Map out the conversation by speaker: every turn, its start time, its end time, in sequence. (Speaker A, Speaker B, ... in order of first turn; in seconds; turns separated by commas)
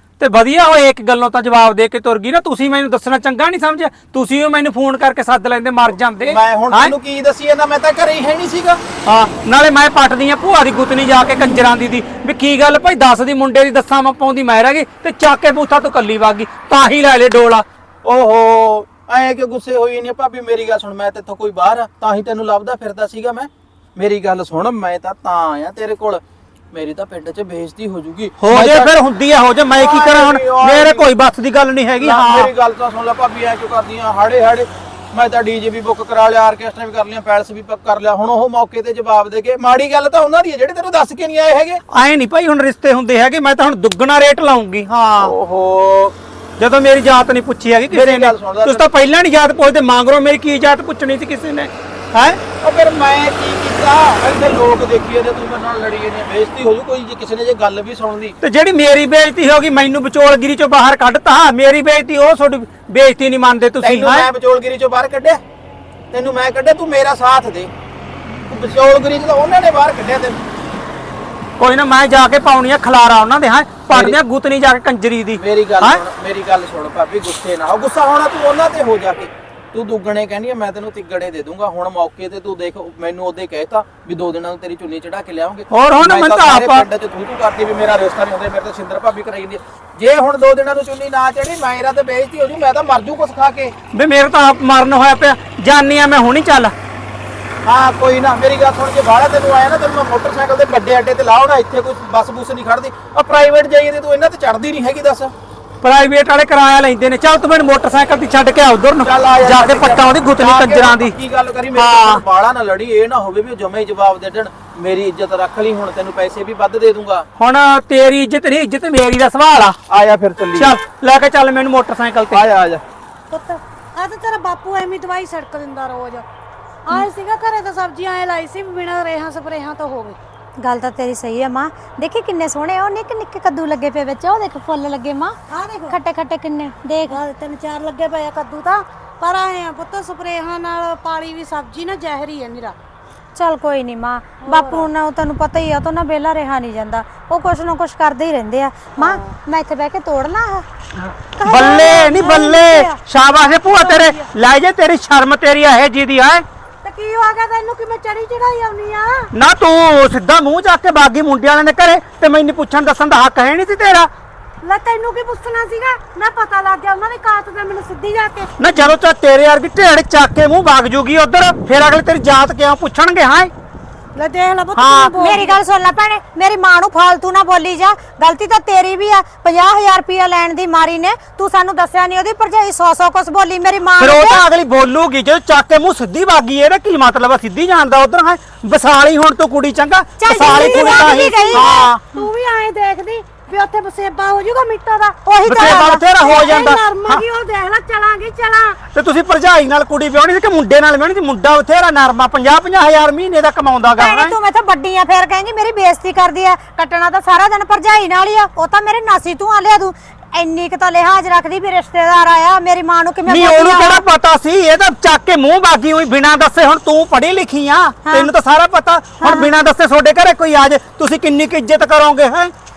Speaker A: 0.2-6.9, Speaker B: 6.2-8.8, Speaker A: 9.0-17.6, Speaker B: 18.0-26.2, Speaker B: 26.7-28.9, Speaker A: 28.4-32.5, Speaker B: 29.7-31.1, Speaker B: 32.0-41.8, Speaker A: 41.9-45.3, Speaker B: 45.2-46.1, Speaker A: 46.6-52.4, Speaker B: 47.9-48.9, Speaker B: 52.6-58.3, Speaker A: 58.4-64.3, Speaker B: 63.8-65.4, Speaker B: 66.1-67.7, Speaker B: 68.5-70.4, Speaker A: 71.6-76.0, Speaker B: 73.9-74.2, Speaker B: 75.4-93.7, Speaker A: 85.7-86.8, Speaker A: 93.9-96.7, Speaker B: 97.6-105.3, Speaker A: 105.8-111.1, Speaker B: 109.0-117.2, Speaker A: 111.7-112.2, Speaker A: 117.4-119.8, Speaker B: 119.9-120.7, Speaker A: 120.5-122.4, Speaker B: 122.3-122.8, Speaker C: 123.3-126.3, Speaker C: 126.9-130.2, Speaker D: 130.6-135.4, Speaker C: 135.5-135.9, Speaker D: 135.9-137.2, Speaker C: 137.1-142.8, Speaker D: 143.3-150.7, Speaker C: 144.4-144.9, Speaker A: 151.0-156.4, Speaker C: 151.4-152.9, Speaker C: 153.7-154.2, Speaker C: 156.8-159.3, Speaker A: 159.3-164.1, Speaker C: 164.6-168.5, Speaker A: 168.6-173.5, Speaker C: 174.2-175.6, Speaker A: 174.8-175.1, Speaker D: 174.8-184.4, Speaker A: 184.0-192.0, Speaker D: 190.2-192.3, Speaker C: 190.4-198.8, Speaker D: 195.2-196.3, Speaker A: 195.4-197.2, Speaker A: 198.9-204.3, Speaker D: 203.9-214.0, Speaker A: 213.2-222.5, Speaker D: 219.2-219.5